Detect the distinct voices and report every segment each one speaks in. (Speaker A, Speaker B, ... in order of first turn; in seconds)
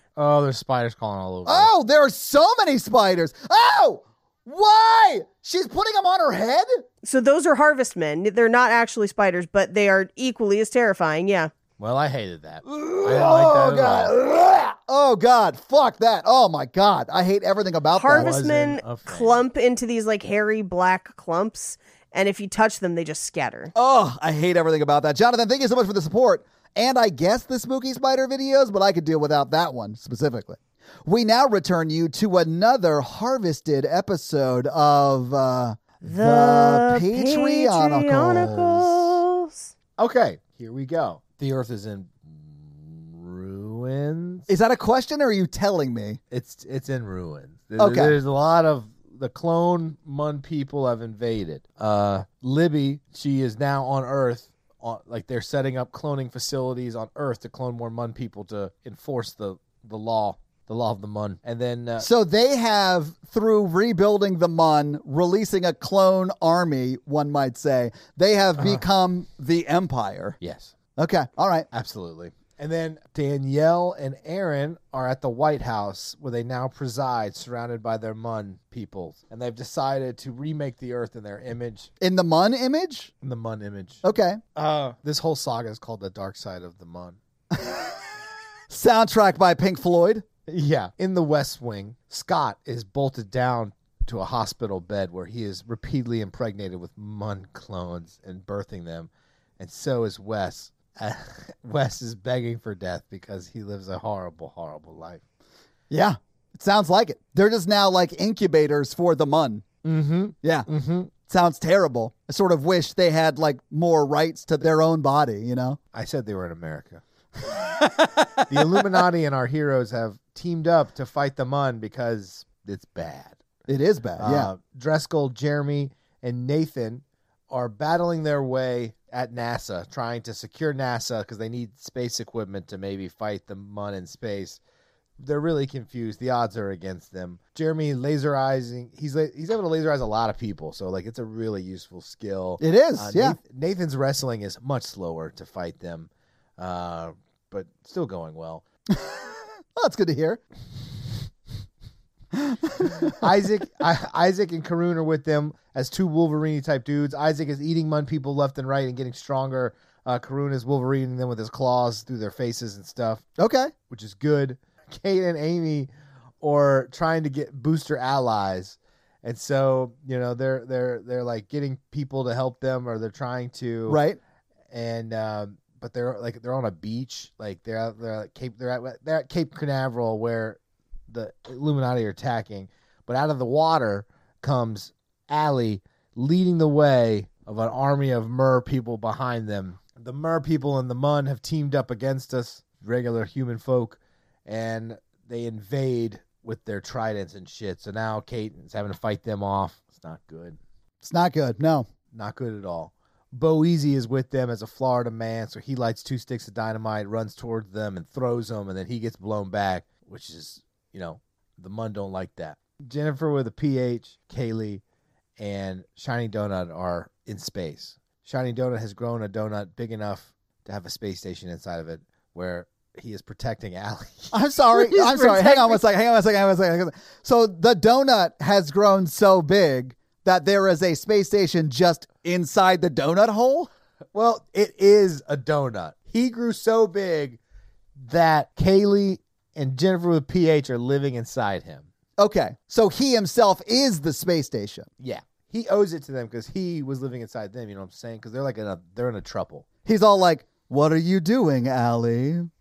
Speaker A: 0.2-1.7, 11.8-14.2, 18.1-19.4, 40.0-44.5, 46.3-62.1, 70.4-70.7, 71.7-81.9, 83.2-84.0, 84.5-87.2, 90.5-105.2, 109.8-111.1, 115.9-117.0, 118.5-123.4, 124.2-134.6, 135.2-148.6, 153.1-163.2, 163.9-165.9, 166.4-174.0, 174.7-180.6, 181.1-200.6, 202.1-214.8, 215.4-224.3, 234.1-237.4, 238.0-241.9, 245.0-249.7
Speaker B: 1.5-6.8, 12.7-18.4, 23.8-39.1, 44.5-46.2, 47.8-48.2, 62.0-70.4, 71.0-71.7, 82.0-83.1, 84.0-84.4, 87.5-88.0, 88.7-90.3, 105.9-109.7, 110.4-110.7, 111.3-115.8, 117.5-118.9, 123.7-124.5, 142.6-143.4, 148.9-150.4, 152.3-153.2, 163.4-163.7, 173.9-174.2, 201.0-201.9, 224.3-233.7, 242.2-244.9, 249.8-252.5
Speaker C: 7.0-11.5, 17.9-23.7, 36.0-39.7, 224.9-225.8